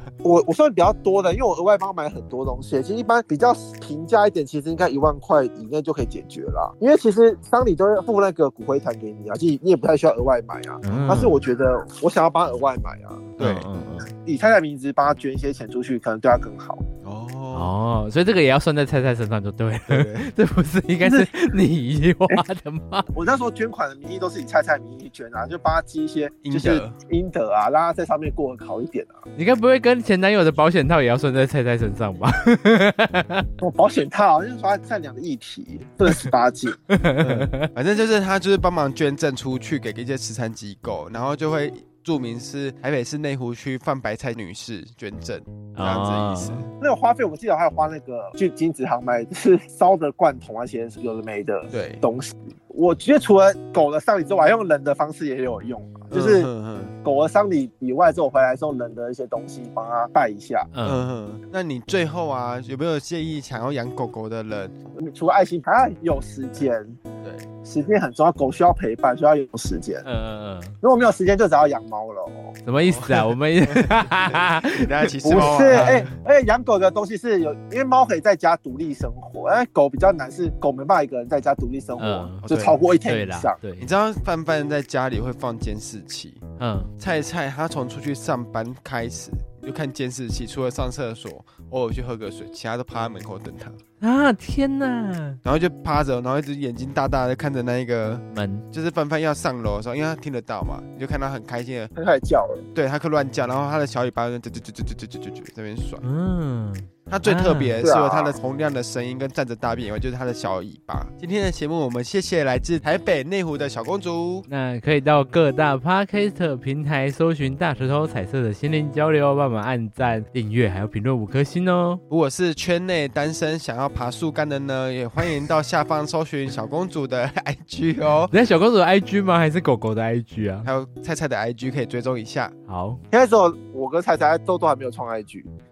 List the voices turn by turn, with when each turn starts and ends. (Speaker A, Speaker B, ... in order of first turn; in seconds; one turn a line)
Speaker A: 0.2-13.3
Speaker B: 10.8-11.4
Speaker C: 13.4-13.7
Speaker B: 13.4-14.1
Speaker A: 14.2-16.8
Speaker C: 17.0-17.7
Speaker B: 17.5-23.1
Speaker C: 19.9-20.3
Speaker A: 21.0-21.3
Speaker A: 23.1-29.2
Speaker C: 26.4-26.9
Speaker B: 29.4-33.5
Speaker A: 33.6-36.8
Speaker B: 36.9-37.7
Speaker C: 37.2-46.7
Speaker B: 45.8-46.6
Speaker A: 46.8-56.5
Speaker C: 51.7-52.0
Speaker C: 56.1-56.9
Speaker A: 57.0-60.7
Speaker B: 60.7-61.0
Speaker C: 60.8-64.8
Speaker A: 64.9-67.0
Speaker C: 67.2-67.5
Speaker A: 67.6-70.0
Speaker B: 70.0-70.8
Speaker A: 70.8-72.5
Speaker B: 72.7-76.1
Speaker C: 72.8-76.1
Speaker A: 75.2-83.6
Speaker B: 82.0-82.4
Speaker C: 82.4-82.8
Speaker B: 83.0-83.9
Speaker C: 83.8-86.4
Speaker B: 86.6-86.9
Speaker C: 87.0-93.8
Speaker B: 94.0-95.4
Speaker C: 95.4-101.9
Speaker B: 98.3-98.6
Speaker A: 102.0-102.6
Speaker C: 102.7-106.0
Speaker B: 106.0-107.8
Speaker C: 107.1-114.5
Speaker A: 107.8-108.4
Speaker B: 114.5-122.0
Speaker C: 122.1-128.3
Speaker B: 128.3-130.7
Speaker C: 130.6-132.5
Speaker B: 132.7-133.0
Speaker A: 133.1-135.5